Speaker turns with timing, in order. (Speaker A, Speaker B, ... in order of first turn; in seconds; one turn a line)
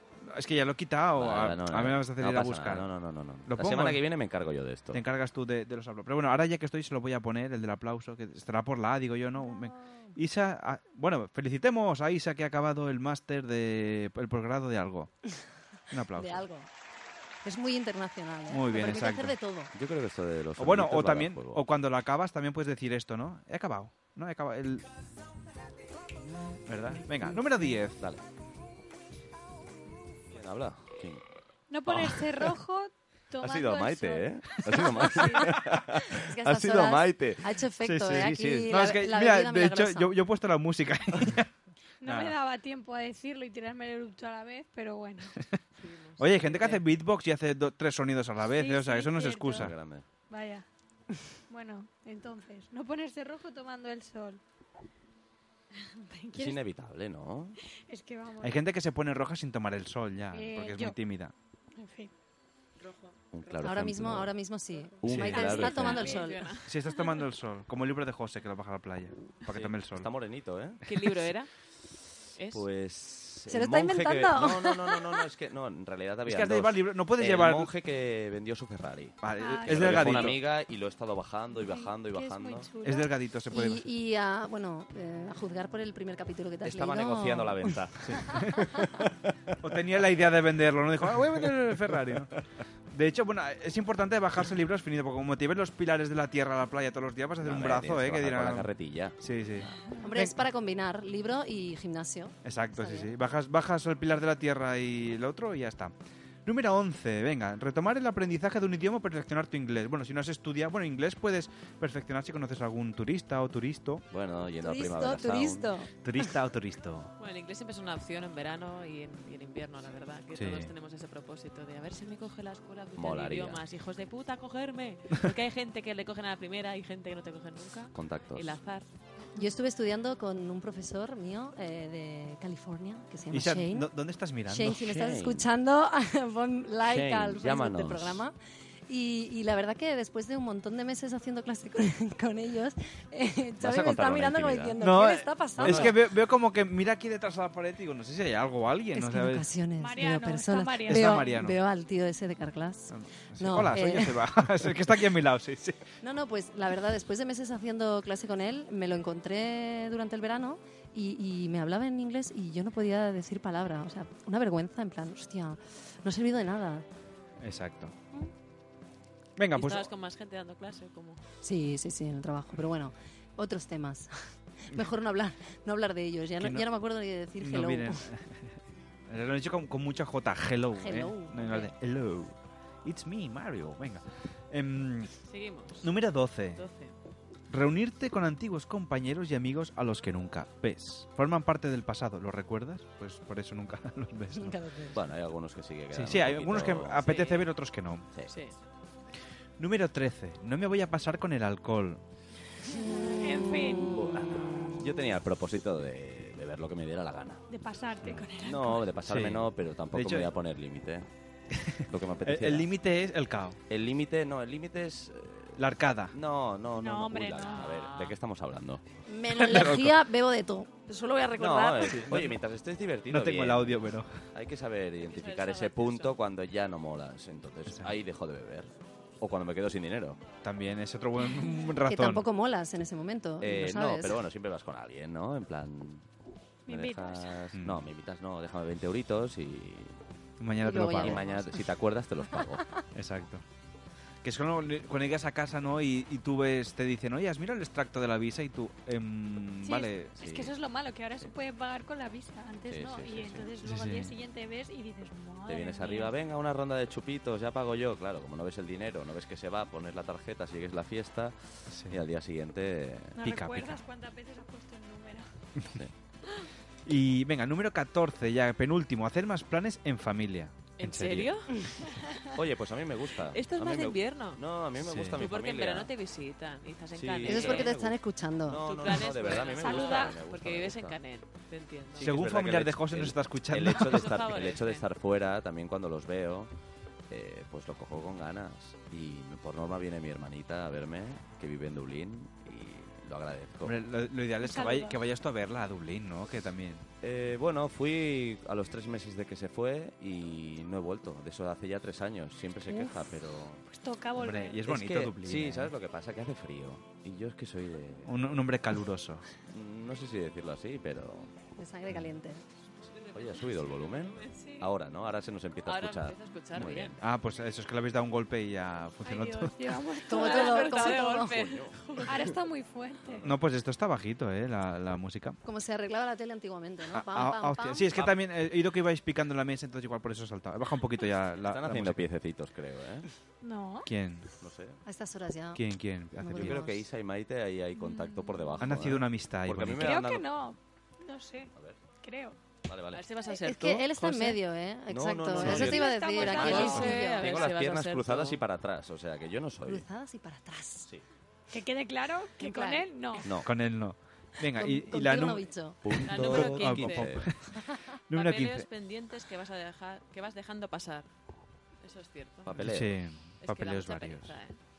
Speaker A: 0.2-2.9
Speaker B: 1.1-5.0
Speaker A: 3.5-4.0
Speaker A: 4.9-15.2
Speaker C: 9.4-9.7
Speaker A: 15.9-16.4
Speaker D: 16.1-16.7
Speaker D: 17.4-19.7
Speaker A: 18.5-19.4
Speaker B: 19.7-21.6
Speaker A: 20.6-24.9
Speaker A: 26.6-28.0
Speaker B: 30.3-31.2
Speaker C: 31.7-35.5
Speaker B: 31.9-32.2
Speaker B: 33.4-38.8
Speaker D: 36.1-40.1
Speaker A: 37.8-41.5
Speaker C: 42.0-45.4
Speaker A: 42.0-42.3
Speaker E: 45.8-46.8
Speaker A: 46.2-49.7
Speaker C: 48.5-49.7
Speaker B: 49.5-50.0
Speaker C: 50.3-50.6
Speaker C: 51.5-54.4
Speaker C: 55.9-56.6
Speaker B: 56.3-57.5
Speaker C: 57.9-58.6
Speaker A: 58.4-61.3
Speaker C: 60.3-61.0
Speaker C: 61.8-62.1
Speaker B: 63.3-64.3
Speaker D: 63.6-66.5
Speaker B: 65.0-66.1
Speaker A: 65.0-65.8
Speaker C: 65.4-66.2
Speaker E: 65.9-66.7
Speaker A: 66.7-70.1
Speaker B: 69.5-70.8
Speaker E: 70.8-71.5
Speaker E: 72.3-72.6
Speaker B: 72.5-82.7
Speaker D: 73.5-75.1
Speaker A: 76.2-77.7
Speaker A: 79.2-80.4
Speaker C: 79.3-80.3
Speaker C: 81.5-83.1
Speaker A: 82.8-83.8
Speaker D: 83.5-87.8
Speaker B: 86.6-89.1
Speaker A: 88.0-88.4
Speaker A: 89.6-92.3
Speaker A: 92.9-100.3
Speaker B: 97.4-99.2
Speaker D: 100.0-103.1
Speaker A: 102.4-105.9
Speaker A: 106.4-114.0
Speaker B: 114.1-115.7
Speaker D: 114.6-115.9
Speaker A: 116.0-117.1
Speaker E: 117.2-128.8
Speaker A: 120.3-120.7
Speaker B: 123.0-123.6
Speaker B: 127.9-128.6
Speaker D: 129.3-133.9
Speaker A: 133.3-134.8
Speaker D: 134.5-138.3
Speaker B: 134.6-135.5
Speaker B: 136.8-138.2
Speaker D: 138.9-146.0
Speaker B: 143.6-144.8
Speaker A: 144.8-149.4
Speaker B: 145.6-145.9
Speaker D: 148.9-154.3
Speaker C: 149.8-151.3
Speaker A: 150.8-151.6
Speaker A: 152.9-155.8
Speaker D: 156.0-166.8
Speaker A: 167.4-167.9
Speaker A: 169.4-169.9
Speaker E: 169.5-171.2
Speaker D: 171.4-178.0
Speaker A: 176.4-176.7
Speaker A: 177.4-178.6
Speaker A: 179.1-185.1
Speaker D: 180.8-181.7
Speaker E: 185.3-185.9
Speaker A: 185.8-186.6
Speaker E: 186.5-186.9
Speaker A: 187.5-194.6
Speaker D: 194.3-195.0
Speaker B: 194.9-197.1
Speaker A: 195.9-198.1
Speaker E: 197.0-197.5
Speaker E: 198.3-198.6
Speaker A: 199.6-202.0
Speaker C: 202.9-204.1
Speaker B: 203.9-207.4
Speaker C: 207.5-208.9
Speaker B: 208.3-211.1
Speaker A: 209.0-210.3
Speaker A: 211.5-213.6
Speaker B: 211.9-212.7
Speaker B: 213.7-218.8
Speaker A: 215.6-216.1
Speaker C: 216.8-217.8
Speaker E: 217.3-218.2
Speaker D: 219.1-222.0
Speaker B: 219.3-219.8
Speaker A: 219.5-219.8
Speaker B: 221.3-230.2
Speaker A: 221.8-222.4
Speaker A: 223.1-224.1
Speaker E: 225.0-226.2
Speaker A: 230.4-232.2
Speaker D: 231.8-234.2
Speaker B: 233.4-236.1
Speaker C: 236.7-237.4
Speaker B: 236.7-240.0
Speaker A: 237.5-237.8
Speaker A: 240.4-241.6
Speaker D: 240.6-241.2
Speaker B: 240.8-242.7
Speaker A: 242.9-243.4
Speaker A: 244.2-250.2
Speaker C: 249.6-256.1
Speaker B: 250.2-250.5
Speaker B: 252.7-253.5
Speaker A: 253.6-254.1
Speaker B: 255.4-263.2
Speaker A: 261.7-262.0
Speaker C: 263.2-265.5
Speaker A: 263.2-263.8
Speaker A: 266.8-271.3
Speaker E: 270.8-271.6
Speaker B: 272.3-275.9
Speaker E: 273.3-274.4
Speaker A: 274.8-275.2
Speaker E: 275.2-277.7
Speaker B: 276.9-281.0
Speaker D: 277.2-278.6
Speaker E: 278.6-282.1
Speaker C: 279.5-280.2
Speaker B: 281.9-286.5
Speaker A: 282.0-284.2
Speaker E: 283.7-284.8
Speaker B: 287.1-293.8
Speaker A: 293.6-296.9
Speaker C: 294.4-295.0
Speaker B: 297.0-303.6
Speaker C: 302.7-303.0
Speaker C: 303.6-304.6
Speaker A: 304.1-305.7
Speaker B: 304.6-308.3
Speaker A: 308.1-309.2
Speaker B: 309.5-311.3
Speaker D: 311.6-312.4
Speaker B: 313.1-317.0
Speaker E: 315.6-316.9
Speaker A: 317.0-319.5
Speaker C: 319.0-321.1
Speaker D: 320.1-321.4
Speaker E: 320.1-322.3
Speaker B: 321.2-322.3
Speaker C: 322.0-323.2
Speaker B: 323.1-323.4
Speaker A: 323.2-325.4
Speaker D: 325.4-327.9
Speaker A: 326.9-332.1
Speaker B: 331.4-333.1
Speaker C: 333.4-333.9
Speaker A: 333.8-334.3
Speaker B: 334.4-334.8
Speaker D: 334.8-335.6
Speaker A: 335.5-336.6
Speaker D: 336.1-336.8
Speaker B: 336.3-340.3
Speaker C: 337.8-338.7
Speaker A: 338.6-339.9
Speaker C: 339.8-342.4
Speaker B: 341.6-341.8
Speaker B: 342.6-343.0
Speaker E: 342.9-344.4
Speaker D: 343.3-347.2
Speaker B: 344.9-349.8
Speaker C: 345.4-347.1
Speaker E: 346.2-348.4
Speaker D: 349.6-350.9
Speaker C: 351.5-353.3
Speaker D: 352.4-352.8
Speaker A: 353.4-358.7
Speaker D: 354.4-355.8
Speaker B: 355.8-357.3
Speaker E: 356.0-357.3
Speaker E: 358.1-361.1
Speaker E: 361.8-362.7
Speaker B: 362.4-362.9
Speaker A: 362.6-364.3
Speaker E: 363.4-364.6